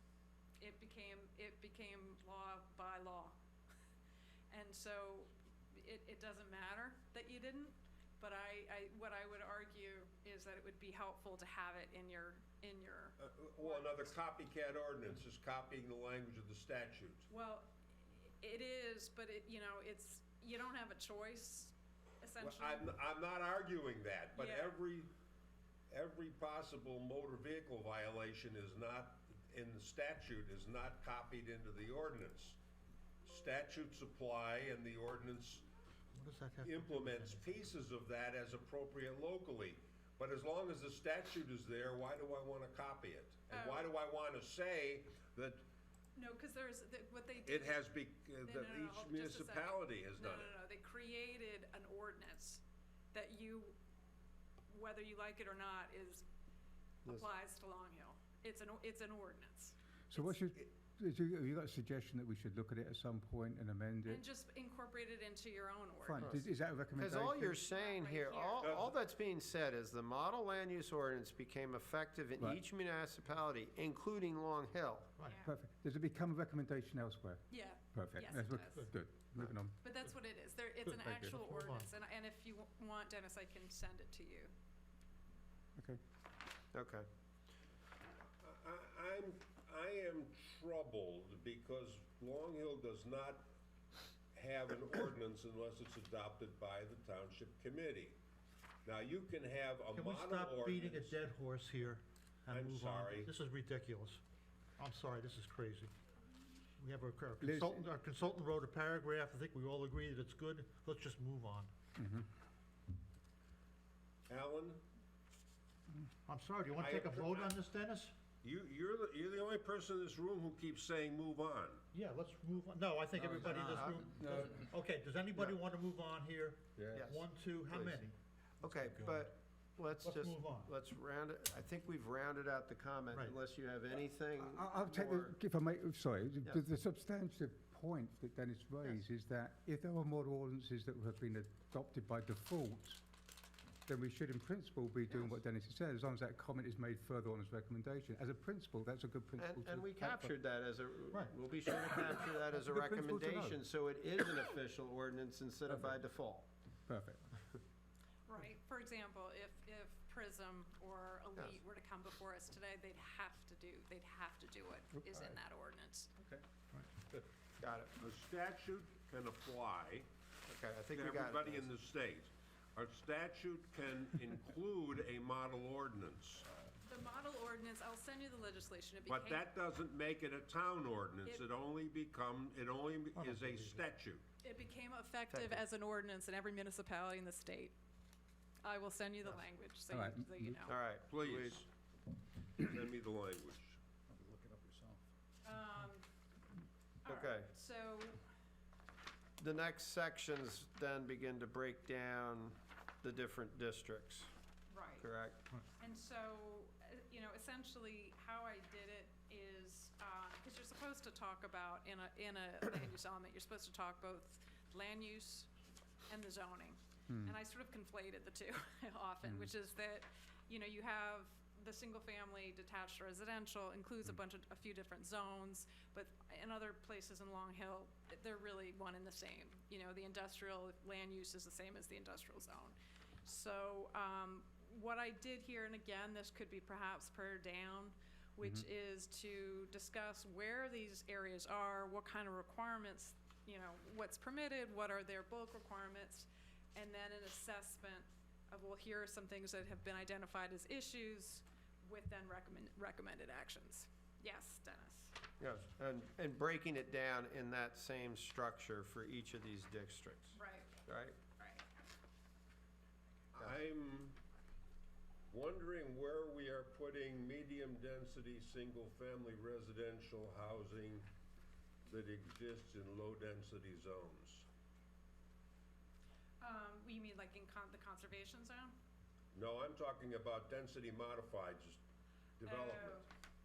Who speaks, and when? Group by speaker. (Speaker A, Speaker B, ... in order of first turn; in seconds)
Speaker A: 0.6-3.4, 4.5-14.0, 17.3-22.9, 24.4-24.8, 43.5-43.9, 46.2-47.8, 48.4-52.6, 53.1-53.8, 54.7-56.2, 57.1-60.4, 64.1-66.3, 67.7-68.7, 77.5-78.9, 79.8-84.5, 158.3-166.1, 176.8-179.5, 184.4-187.8, 188.6-190.8, 195.4-196.1, 197.0-198.2, 204.7-205.1, 205.8-215.5, 216.1-255.2, 260.3-260.9, 261.4-261.6, 276.4-278.8, 282.4-283.1
Speaker B: 13.2-17.3, 22.4-25.1, 25.9-32.6, 33.2-35.7, 36.6-45.6, 47.5-50.6, 68.6-69.0, 88.4-93.5, 94.3-98.2, 98.8-101.2, 102.5-103.3, 114.3-114.8, 116.8-117.6, 118.4-121.8, 168.0-170.1, 170.9-176.5, 179.1-184.2, 191.1-191.7, 192.6-193.8, 263.4-264.2, 265.3-271.1, 271.9-274.5, 279.3-281.8, 282.4-283.1
Speaker C: 36.1-37.6, 80.9-81.9, 99.9-104.2, 104.8-105.9, 106.8-111.7, 116.3-118.1, 121.9-128.2, 130.0-130.7, 133.1-133.4, 183.2-183.8
Speaker D: 60.1-64.2, 66.0-67.6, 75.4-79.8, 81.0-81.3, 107.4-107.8, 112.0-112.3, 123.2-124.7, 134.4-143.0, 143.9-150.3, 152.7-153.6, 155.7-155.9, 156.9-157.3, 189.9-190.6, 217.1-217.4, 219.2-219.5
Speaker E: 66.2-75.1, 86.7-87.1, 123.4-124.2, 126.9-128.1, 128.6-135.4, 145.1-145.4, 149.4-156.5, 167.6-167.9, 170.5-171.7, 185.3-185.6, 190.7-191.6, 197.1-197.5, 199.4-204.3, 205.0-205.4, 255.4-261.2